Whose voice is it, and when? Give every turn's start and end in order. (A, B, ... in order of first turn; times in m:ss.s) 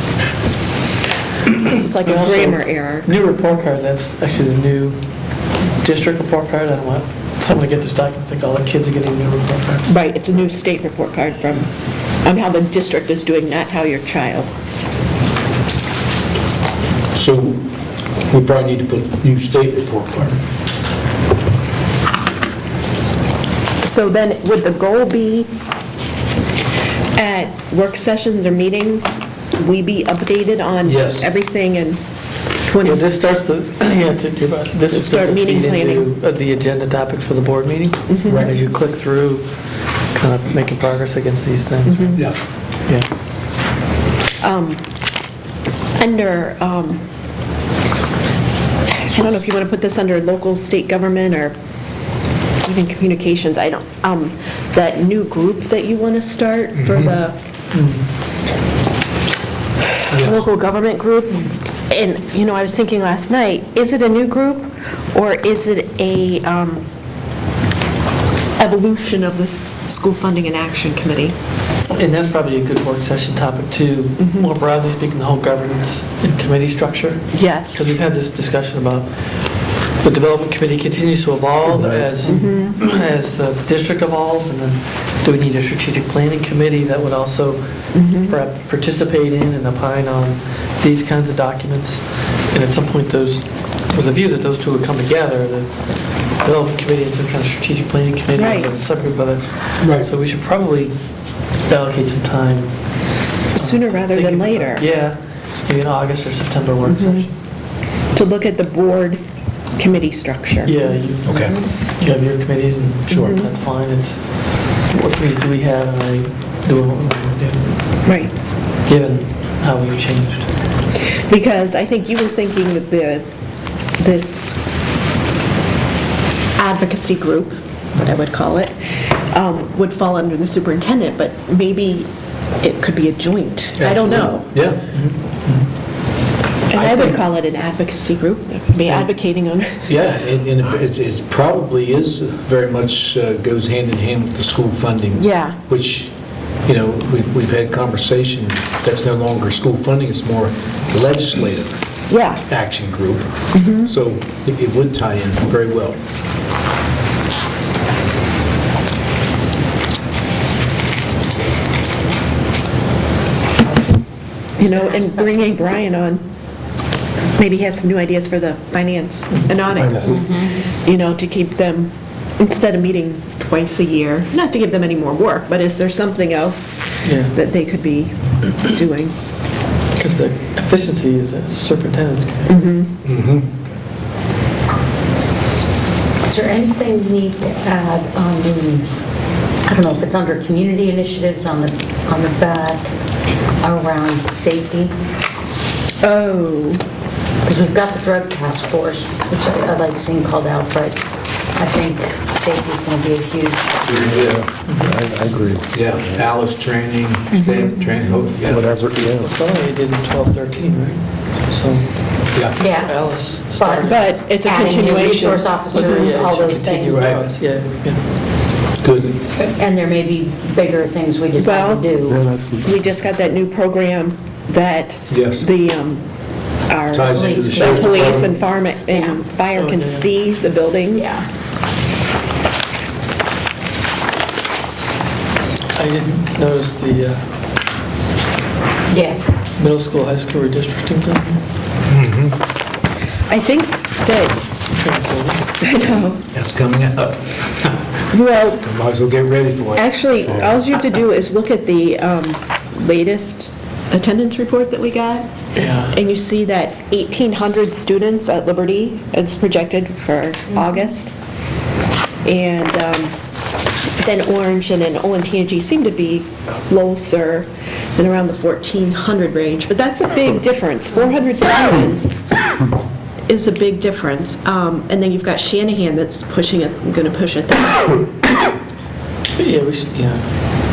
0:01.7-0:03.1 A
0:02.1-0:05.0 B
0:05.8-0:09.9 B
0:09.8-0:11.7 A
0:12.2-0:14.5 A
0:17.1-0:17.7 C
0:18.3-0:20.4 C
0:23.8-0:25.5 A
0:27.2-0:32.0 A
0:30.9-0:31.3 C
0:32.7-0:33.1 A
0:32.8-0:39.5 B
0:34.9-0:36.1 A
0:38.1-0:38.5 A
0:38.3-0:38.6 C
0:40.1-0:42.3 B
0:41.8-0:42.2 A
0:44.4-0:44.8 A
0:46.0-0:47.0 A
0:48.9-0:51.5 A
0:52.6-0:57.4 A
0:56.8-0:57.2 C
0:57.7-0:58.0 B
0:59.9-1:06.8 A
1:00.1-1:00.4 C
1:08.6-1:11.4 A
1:11.9-1:41.0 B
1:14.2-1:14.5 A
1:17.3-1:17.9 A
1:22.2-1:22.8 A
1:27.9-1:28.4 A
1:38.4-1:38.7 A
1:39.8-1:40.1 C
1:41.6-1:47.3 B
1:43.5-1:44.9 A
1:46.8-1:47.3 A
1:48.1-1:49.2 A
1:49.8-1:50.8 A
1:50.6-1:58.1 B
1:51.2-1:51.6 C
1:53.1-1:53.4 C
1:53.2-1:53.5 A
1:58.0-1:58.3 A
1:58.9-2:00.5 B
2:01.0-2:03.2 A
2:04.0-2:04.6 A
2:06.6-2:12.1 A
2:12.6-2:14.6 A
2:13.8-2:14.8 C
2:14.9-2:15.7 B
2:16.7-2:19.9 A
2:16.7-2:17.2 C
2:19.9-2:26.1 C
2:25.2-2:25.6 A
2:26.7-2:31.8 C
2:32.1-2:32.4 A
2:32.5-2:36.0 C
2:33.5-2:33.9 A
2:43.6-2:43.9 D
2:44.6-2:46.2 A
2:44.6-2:45.6 D
2:47.4-2:59.1 A
2:49.8-2:50.2 C
2:50.1-2:50.5 D
2:57.0-2:57.3 B
3:00.0-3:02.5 B
3:02.5-3:03.0 A
3:03.0-3:03.5 C
3:06.3-3:08.9 D
3:09.7-3:12.9 D
3:13.6-3:14.9 D
3:16.0-3:16.8 A
3:17.4-3:21.0 D
3:21.6-3:24.0 D
3:23.9-3:25.6 E
3:23.9-3:24.4 C
3:24.7-3:25.0 B
3:25.7-3:28.9 C
3:28.4-3:29.3 E
3:29.2-3:34.2 B
3:32.6-3:37.2 D
3:33.8-3:36.2 A
3:35.7-3:38.0 B
3:36.9-3:37.3 C
3:38.8-3:39.2 C
3:39.4-3:42.3 D
3:41.4-3:42.0 A
3:42.1-3:42.7 E
3:42.5-3:46.0 A
3:45.1-3:45.5 C
3:46.7-3:51.1 A
3:46.9-3:48.3 C
3:47.1-3:49.2 D
3:49.5-3:50.1 B
3:50.9-3:51.3 D
3:55.8-3:57.3 B
3:58.9-3:59.2 D
3:59.6-4:01.4 B
4:01.9-4:02.4 C
4:03.3-4:04.4 A
4:04.8-4:05.4 B
4:05.6-4:06.2 A
4:06.3-4:07.8 C
4:08.1-4:08.7 A
4:08.6-4:10.6 C
4:09.8-4:21.1 A
4:15.6-4:15.9 B
4:22.2-4:23.2 A
4:24.0-4:32.2 A
4:33.3-4:38.1 A
4:39.4-4:40.2 B